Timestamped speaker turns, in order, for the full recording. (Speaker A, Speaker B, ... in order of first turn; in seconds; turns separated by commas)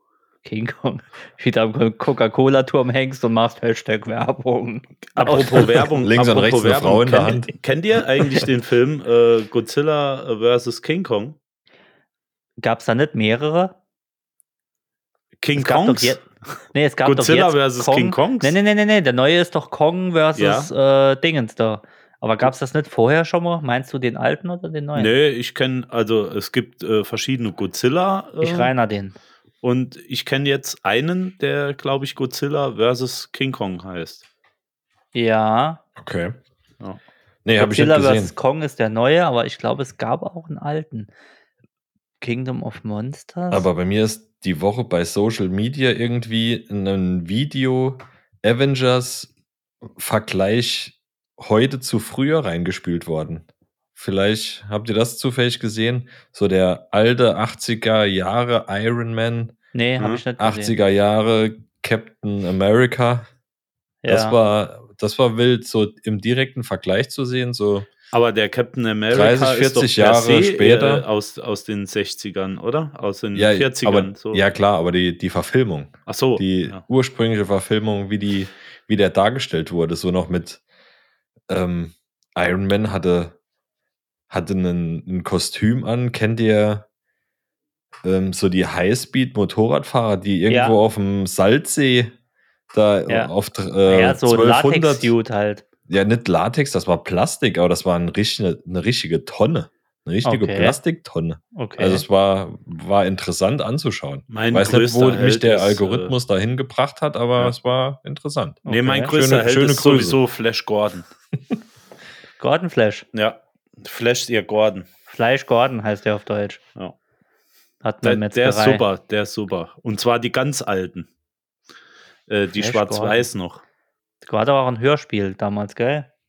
Speaker A: 0.4-5.7, Speaker B: 5.1-11.4, Speaker C: 6.0-7.5, Speaker A: 12.6-13.7, Speaker B: 15.4-16.2, Speaker A: 15.5-16.2, Speaker A: 16.7-25.1, Speaker B: 17.0-18.6, Speaker B: 20.4-20.7, Speaker B: 24.9-28.7, Speaker A: 28.4-29.1, Speaker B: 29.6-34.2, Speaker A: 35.1-35.8, Speaker C: 36.0-36.4, Speaker C: 37.4-38.3, Speaker A: 37.6-41.1, Speaker A: 42.2-43.7, Speaker C: 43.5-49.3, Speaker C: 49.8-59.5, Speaker A: 59.7-60.7, Speaker C: 60.4-63.3, Speaker A: 64.0-64.4, Speaker C: 64.1-67.9, Speaker B: 68.1-74.4, Speaker C: 69.1-71.0, Speaker C: 73.3-80.6, Speaker B: 76.1-76.8, Speaker C: 81.5-83.3, Speaker C: 84.3-86.8, Speaker C: 88.0-92.1, Speaker A: 90.5-90.8, Speaker C: 92.7-95.1, Speaker A: 93.8-95.6, Speaker C: 95.9-110.2, Speaker A: 100.2-100.8, Speaker A: 101.5-102.0, Speaker B: 104.3-106.1, Speaker A: 108.6-109.1, Speaker B: 108.7-111.1, Speaker A: 112.4-113.0, Speaker B: 113.1-114.9, Speaker A: 115.1-116.6, Speaker A: 117.8-118.8, Speaker B: 118.0-121.1, Speaker B: 122.3-123.6, Speaker A: 122.5-123.2, Speaker A: 124.2-126.1